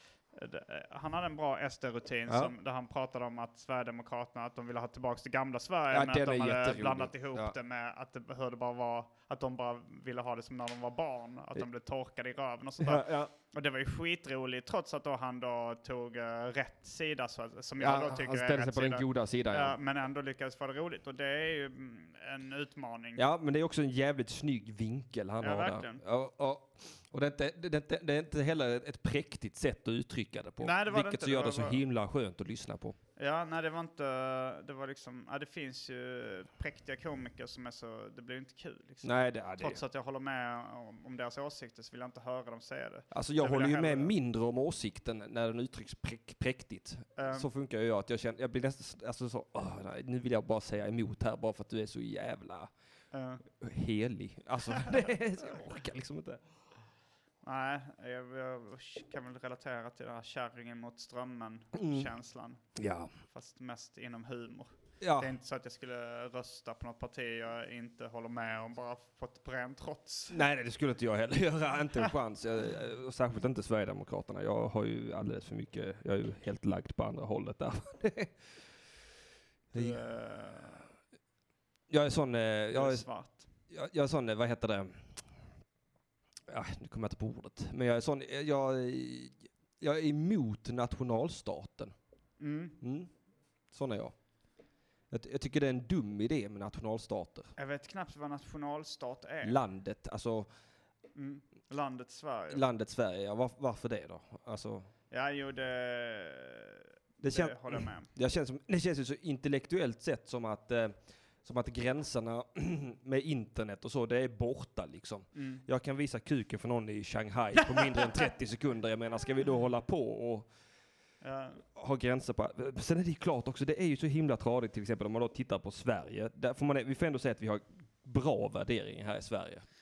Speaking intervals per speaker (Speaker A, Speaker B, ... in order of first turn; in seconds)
Speaker A: 0.3-23.2, 25.4-26.0, 30.6-31.8, 33.2-44.1, 47.2-47.5, 53.1-53.4, 54.7-55.6, 57.4-62.7, 63.3-70.4, 79.7-80.8, 82.7-83.4, 92.4-92.8, 97.6-99.6, 101.2-102.6, 105.1-108.1, 115.3-115.6, 117.8-118.2, 121.2-121.6
Speaker B: 5.9-7.5, 12.8-13.3, 17.8-19.7, 23.1-33.0, 39.0-39.8, 43.1-52.7, 53.6-56.4, 61.8-62.1, 62.8-63.1, 65.0-65.3, 70.3-78.3, 79.7-80.0, 81.9-83.0, 83.7-85.0, 86.5-91.9, 92.8-93.1, 93.7-94.1, 95.1-97.5, 99.4-100.5, 102.5-104.9, 107.2-120.5, 121.8-129.6